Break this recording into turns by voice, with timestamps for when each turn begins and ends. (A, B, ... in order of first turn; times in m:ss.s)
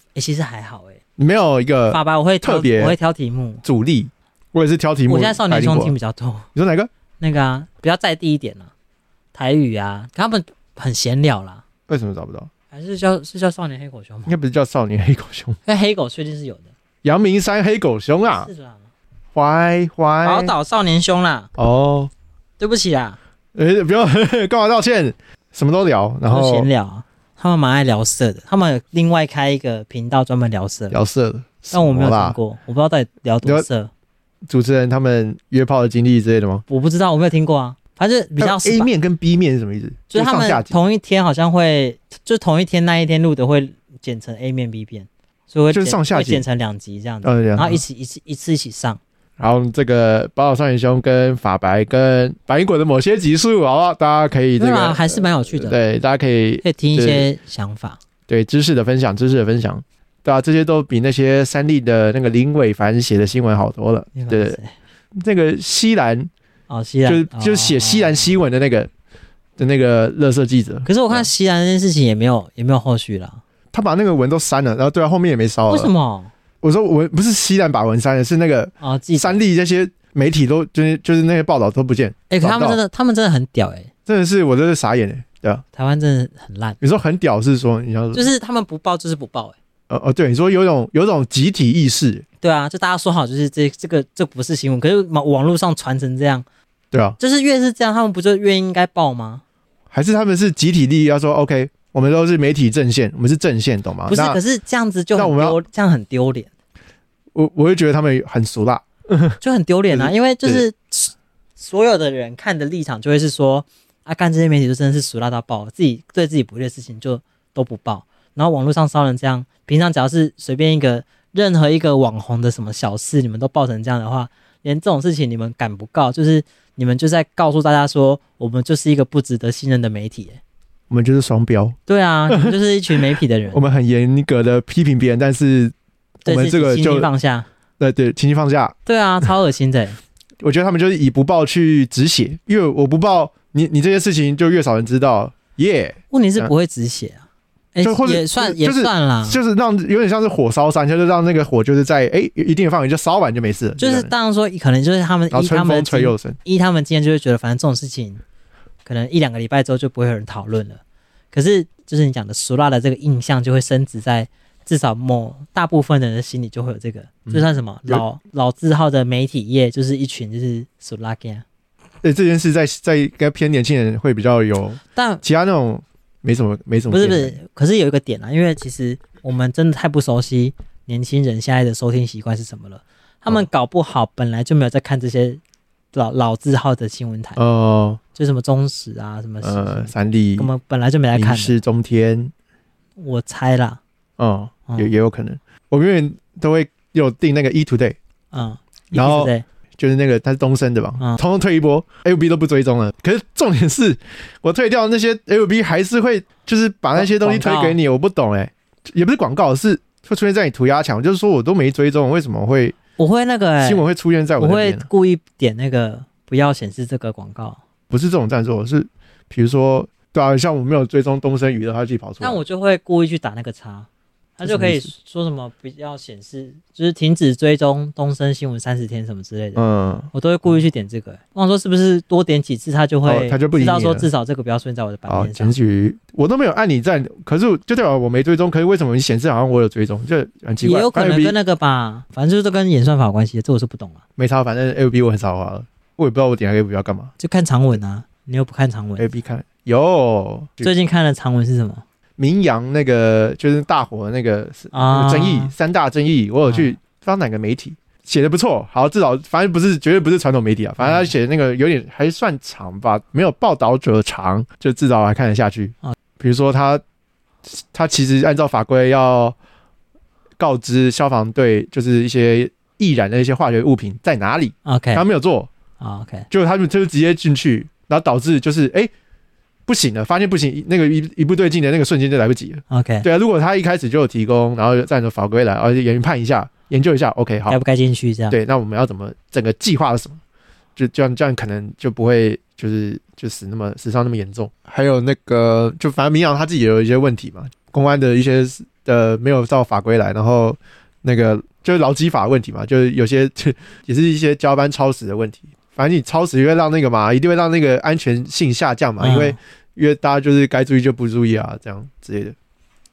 0:00.1-0:01.0 A
0:01.2-0:03.0 B
0:01.9-0:03.6 A
0:03.6-0:05.9 B
0:05.1-0:06.5 A
0:06.5-0:06.9 B
0:07.2-0:08.7 A
0:09.3-0:11.6 A
0:11.9-0:12.5 B
0:12.7-0:14.3 A
0:14.2-0:15.6 B
0:15.6-0:16.7 A
0:17.0-0:18.5 B
0:18.2-0:18.9 A
0:19.3-0:20.5 B
0:20.2-0:21.5 A
0:21.6-0:22.1 B
0:22.6-0:23.2 A
0:23.5-0:26.7 B
0:26.3-0:31.0 A
0:30.9-0:32.4 B
0:31.7-0:33.9 A
0:34.5-0:36.6 B
0:36.7-0:38.9 A
0:38.4-0:40.8 B
0:40.1-0:49.0 A
0:45.7-0:46.4 B
0:47.2-0:47.8 B
0:49.4-0:57.3 B
0:54.6-0:55.8 A
0:56.6-0:58.0 A
0:58.3-1:04.6 B
1:04.1-1:04.7 A
1:05.2-1:06.3 B
1:06.7-1:08.4 A
1:07.0-1:08.9 B
1:09.6-1:11.3 B
1:10.8-1:13.4 A
1:13.7-1:15.9 B
1:15.7-1:16.3 A
1:16.6-1:22.8 B
1:18.8-1:19.4 A
1:22.3-1:23.9 A
1:24.1-1:25.6 B
1:25.8-1:26.8 A
1:26.8-1:28.3 B
1:28.1-1:29.6 A
1:29.9-1:32.2 B
1:32.4-1:36.4 A
1:36.9-1:37.2 B
1:37.2-1:39.4 A
1:39.9-1:44.4 B
1:44.1-1:46.5 A
1:45.1-1:45.6 B
1:47.3-1:49.4 B
1:49.4-2:10.4 A
1:49.9-1:50.6 B
2:10.9-2:11.8 B
2:11.9-2:13.6 A
2:12.3-2:13.0 B
2:13.5-2:15.7 B
2:16.2-2:17.1 B
2:16.2-2:17.5 A
2:17.8-2:18.8 B
2:18.8-2:20.0 A
2:20.4-2:26.5 B
2:26.1-2:27.2 A
2:27.8-2:29.4 A
2:27.8-2:34.1 B
2:33.8-2:38.2 A
2:35.3-2:36.4 B
2:38.8-2:40.8 A
2:41.3-2:51.4 A
2:47.2-2:48.0 B
2:52.0-2:57.4 B
2:54.9-2:55.2 A
2:56.9-3:05.4 A
3:05.9-3:07.4 A
3:07.4-3:08.0 B
3:08.1-3:11.6 A
3:09.4-3:10.5 B
3:11.1-3:12.3 B
3:13.0-3:13.8 A
3:14.2-3:18.0 B
3:14.7-3:14.9 A
3:18.3-3:19.4 A
3:18.9-3:32.8 B
3:26.9-3:27.8 A
3:33.0-3:33.8 A
3:33.6-3:34.9 B
3:34.4-3:37.6 A
3:37.9-3:42.4 B
3:42.2-3:49.6 A
3:44.4-3:44.9 B
3:49.6-3:50.1 B
3:50.1-3:55.5 A
3:53.0-3:54.1 B
3:55.1-4:01.4 B
4:00.6-4:04.0 A
4:04.2-4:07.1 B
4:07.2-4:09.0 A
4:09.0-4:10.7 B
4:10.6-4:11.8 A
4:12.2-4:26.8 B
4:14.7-4:15.5 A
4:16.4-4:16.8 A
4:20.8-4:21.1 A
4:27.4-4:29.4 B
4:30.4-4:35.5 B
4:34.6-4:35.0 A
4:35.8-4:36.3 A
4:36.3-4:38.9 B
4:39.7-4:47.6 B
4:42.7-4:43.0 A
4:47.5-4:48.4 A
4:48.3-4:50.2 B
4:50.8-5:12.4 B
5:09.0-5:09.4 A